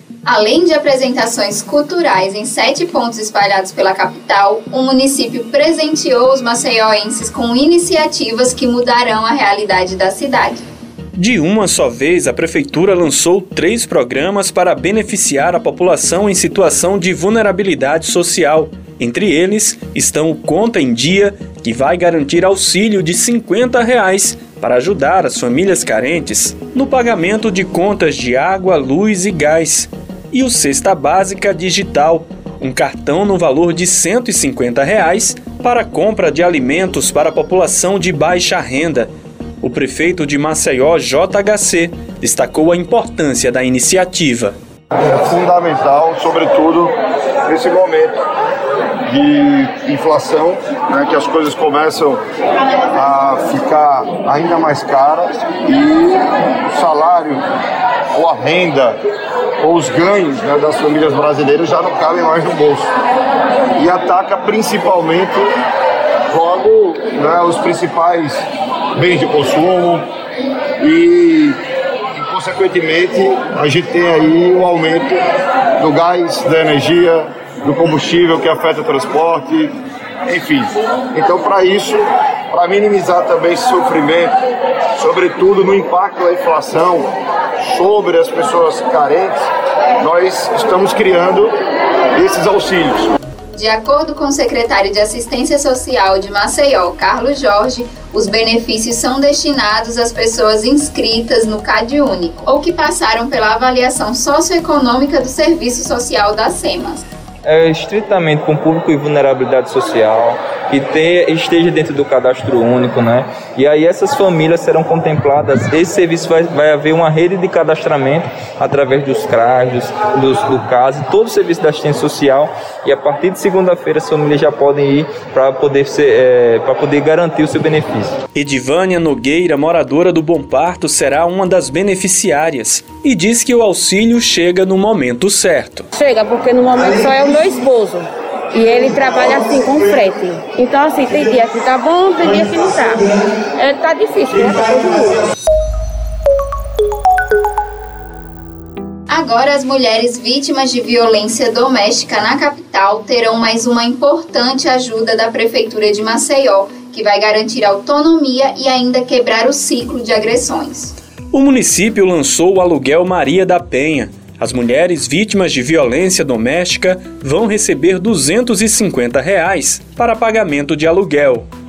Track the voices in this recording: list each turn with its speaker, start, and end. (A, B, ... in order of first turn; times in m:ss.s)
0:00.2-0:10.6 A
0:11.2-0:39.1 B
0:39.6-0:44.5 B
0:45.0-0:46.9 C
0:47.5-0:48.1 C
0:49.1-0:52.2 C
0:52.9-0:57.4 C
0:58.1-0:59.0 C
0:59.6-1:02.9 C
1:03.8-1:05.5 C
1:06.3-1:10.0 C
1:10.8-1:11.6 C
1:12.1-1:15.2 C
1:15.8-1:19.7 C
1:20.3-1:24.4 C
1:25.0-1:29.5 C
1:30.0-1:31.5 C
1:32.2-1:33.1 C
1:33.5-1:47.0 A
1:47.4-2:08.1 D
2:08.3-2:15.9 B
2:15.9-2:25.2 E
2:29.1-2:40.9 A
2:41.3-2:51.4 B